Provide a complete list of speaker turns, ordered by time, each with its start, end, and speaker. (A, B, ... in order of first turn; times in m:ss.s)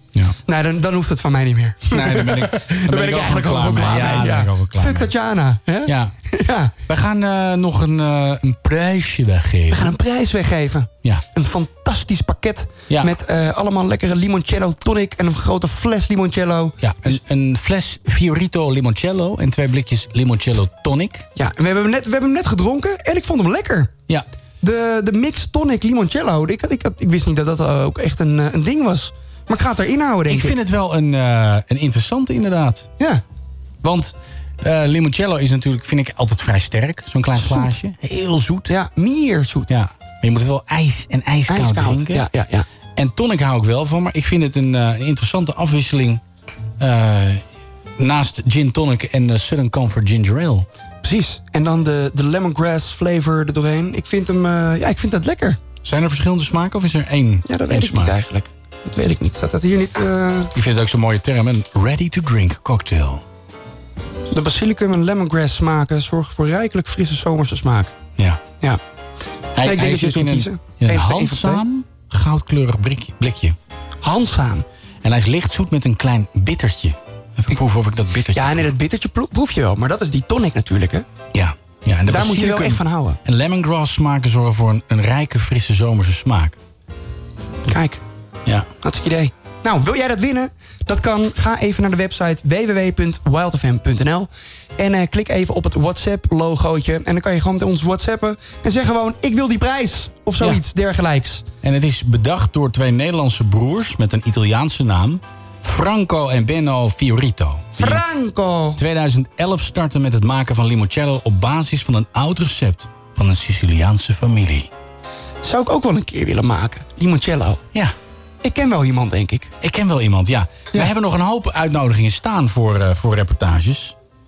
0:00.5-0:06.7 A
0:01.9-0:05.1 B
0:05.9-0:06.1 B
0:06.9-0:09.9 B
0:09.7-0:17.2 A
0:12.9-0:13.2 B
0:16.8-0:21.3 B
0:21.4-0:23.9 A
0:24.6-0:30.6 A
0:30.3-0:32.9 B
0:33.8-0:38.7 B
0:37.4-0:37.7 A
0:38.7-0:39.7 A
0:39.7-0:42.3 B
0:41.5-0:42.7 A
0:43.0-0:46.2 B
0:46.8-0:47.4 B
0:48.0-0:50.7 B
0:51.0-0:55.6 A
0:55.8-0:58.2 B
0:57.5-1:00.5 A
1:00.6-1:03.2 B
1:04.3-1:07.9 A
1:09.6-1:13.6 B
1:09.6-1:11.6 A
1:14.0-1:14.6 A
1:15.0-1:18.7 B
1:18.3-1:21.0 A
1:21.3-1:26.6 B
1:22.1-1:23.2 A
1:27.7-1:28.0 A
1:28.8-1:41.4 A
1:41.6-1:48.0 B
1:47.8-1:48.8 A
1:48.8-1:54.7 B
1:55.4-1:57.6 A
1:58.4-1:59.5 A
1:59.6-2:04.0 B